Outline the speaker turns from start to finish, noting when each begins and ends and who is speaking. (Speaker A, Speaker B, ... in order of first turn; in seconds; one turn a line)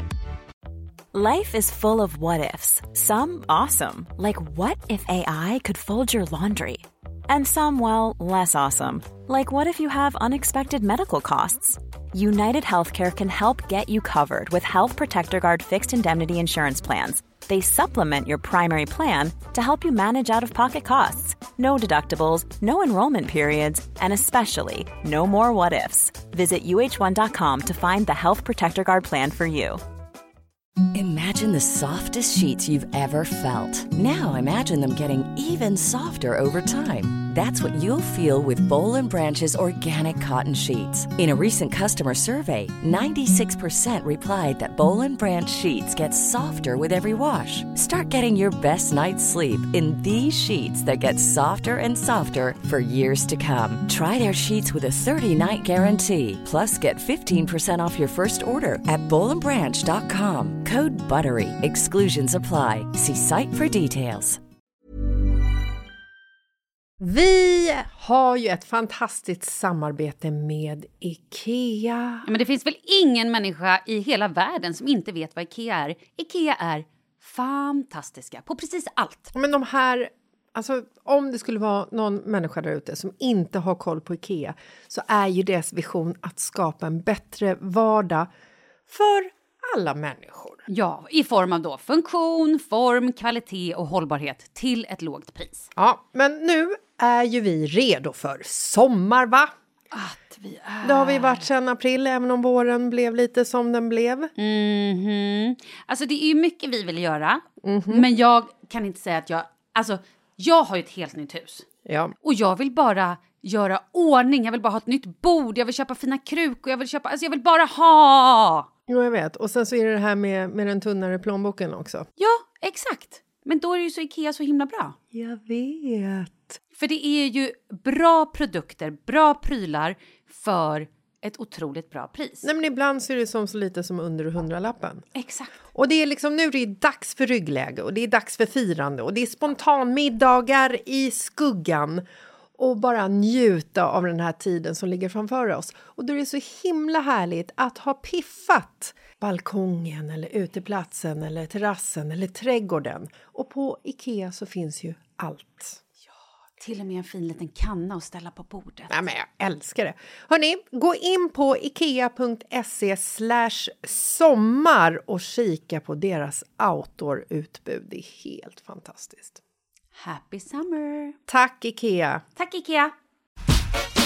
Speaker A: 1.1-29.8
Speaker B: 30.9-64.4
Speaker C: 67.0-72.3
Speaker D: 72.3-79.3
Speaker C: 79.3-88.3
Speaker C: 88.9-90.7
Speaker D: 90.7-95.7
Speaker C: 95.8-99.5
Speaker D: 99.9-101.5
Speaker C: 100.8-104.3
Speaker D: 104.4-111.7
Speaker C: 107.6-108.1
Speaker C: 111.9-112.2
Speaker D: 112.2-118.7
Speaker C: 118.9-122.1
Speaker D: 122.2-125.0
Speaker C: 125.1-126.6
Speaker D: 126.7-132.5
Speaker C: 132.4-135.1
Speaker D: 135.2-135.6
Speaker C: 135.8-142.1
Speaker C: 142.6-155.8
Speaker D: 156.6-158.9
Speaker C: 158.9-169.4
Speaker D: 170.0-171.2
Speaker C: 171.3-172.2
Speaker D: 172.4-172.9